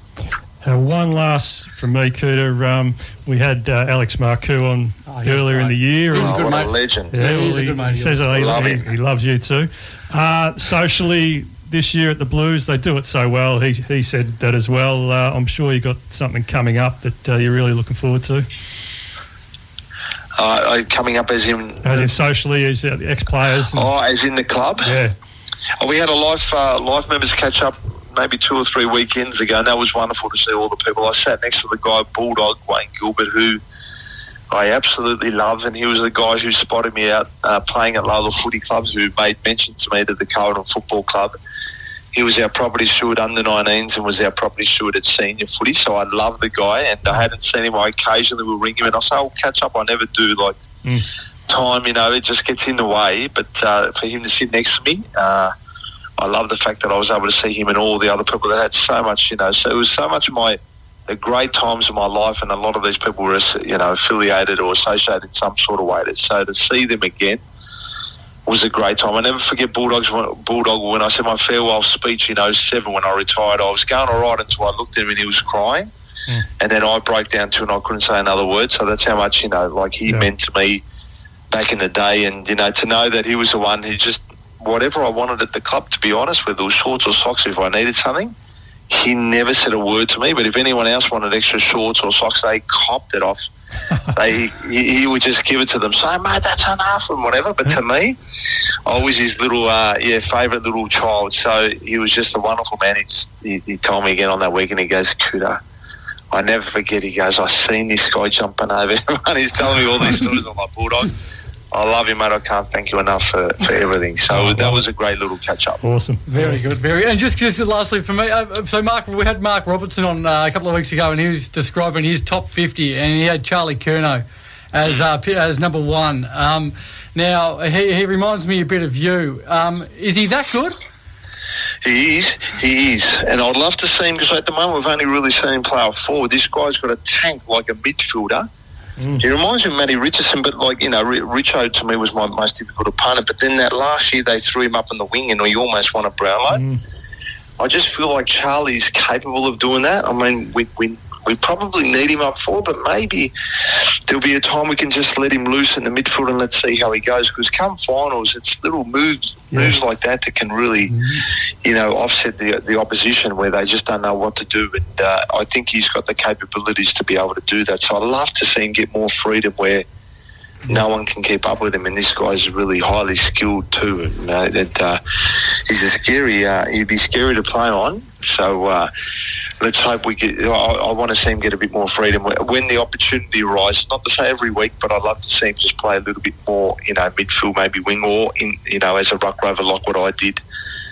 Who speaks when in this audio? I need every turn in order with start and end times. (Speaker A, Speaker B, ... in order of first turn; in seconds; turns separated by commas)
Speaker A: 0.6-6.6, Speaker B: 5.1-8.3, Speaker C: 6.1-7.2, Speaker A: 7.1-18.5, Speaker C: 8.3-8.9, Speaker C: 20.4-22.1, Speaker A: 21.8-23.9, Speaker C: 23.7-24.9, Speaker A: 24.8-25.1, Speaker C: 25.8-33.6, Speaker C: 34.5-41.4, Speaker C: 42.1-50.7, Speaker C: 51.5-55.5, Speaker C: 56.2-67.4, Speaker C: 68.5-75.9, Speaker C: 76.6-80.8, Speaker C: 81.5-88.3, Speaker C: 88.9-93.5, Speaker C: 94.1-105.6, Speaker C: 106.3-111.1, Speaker C: 111.7-115.8, Speaker A: 114.3-114.8, Speaker A: 115.8-116.7, Speaker B: 116.3-130.8, Speaker C: 131.8-138.5, Speaker A: 139.0-139.3, Speaker C: 139.2-146.6, Speaker A: 146.5-146.8, Speaker C: 147.6-169.8, Speaker A: 159.5-159.8, Speaker A: 160.9-161.2, Speaker C: 170.7-178.9, Speaker C: 179.6-190.4